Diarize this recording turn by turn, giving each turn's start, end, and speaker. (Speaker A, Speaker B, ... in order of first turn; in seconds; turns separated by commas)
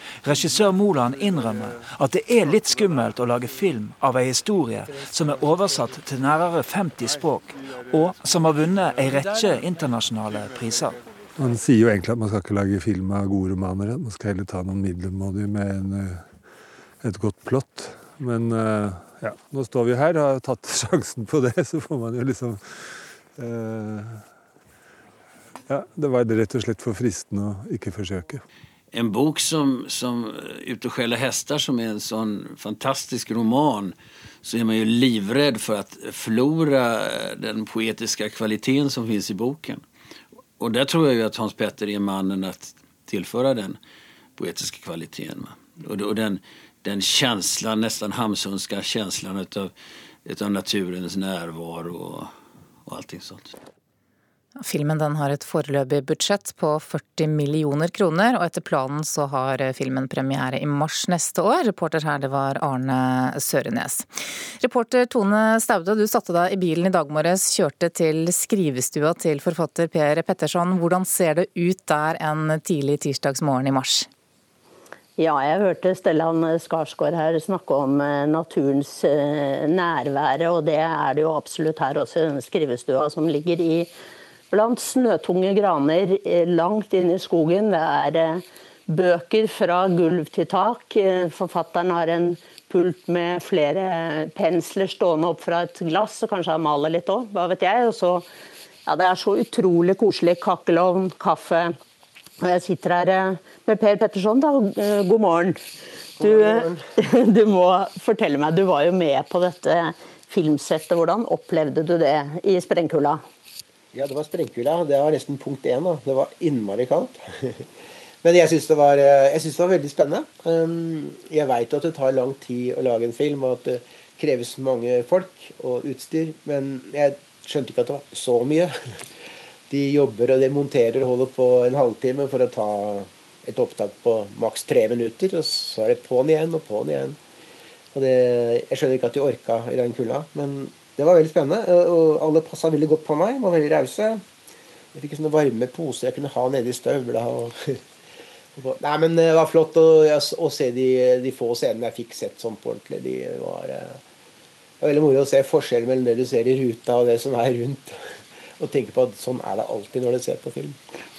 Speaker A: 0.2-11.0, Speaker B: 11.4-16.3, Speaker B: 17.0-24.2, Speaker B: 25.7-28.4, Speaker C: 28.9-33.9, Speaker C: 34.4-39.8, Speaker C: 40.6-43.8, Speaker C: 44.4-49.7, Speaker C: 50.2-52.3, Speaker C: 52.9-53.5, Speaker D: 54.6-64.1, Speaker D: 64.6-74.1, Speaker E: 75.2-83.9, Speaker E: 84.5-98.3, Speaker E: 98.8-101.7, Speaker E: 102.4-105.6, Speaker F: 106.2-106.8, Speaker E: 106.2-113.2, Speaker F: 113.9-117.6, Speaker F: 118.2-128.7, Speaker F: 129.7-137.2, Speaker F: 137.9-144.2, Speaker F: 144.9-147.8, Speaker F: 148.5-154.0, Speaker F: 154.8-158.0, Speaker F: 158.6-160.8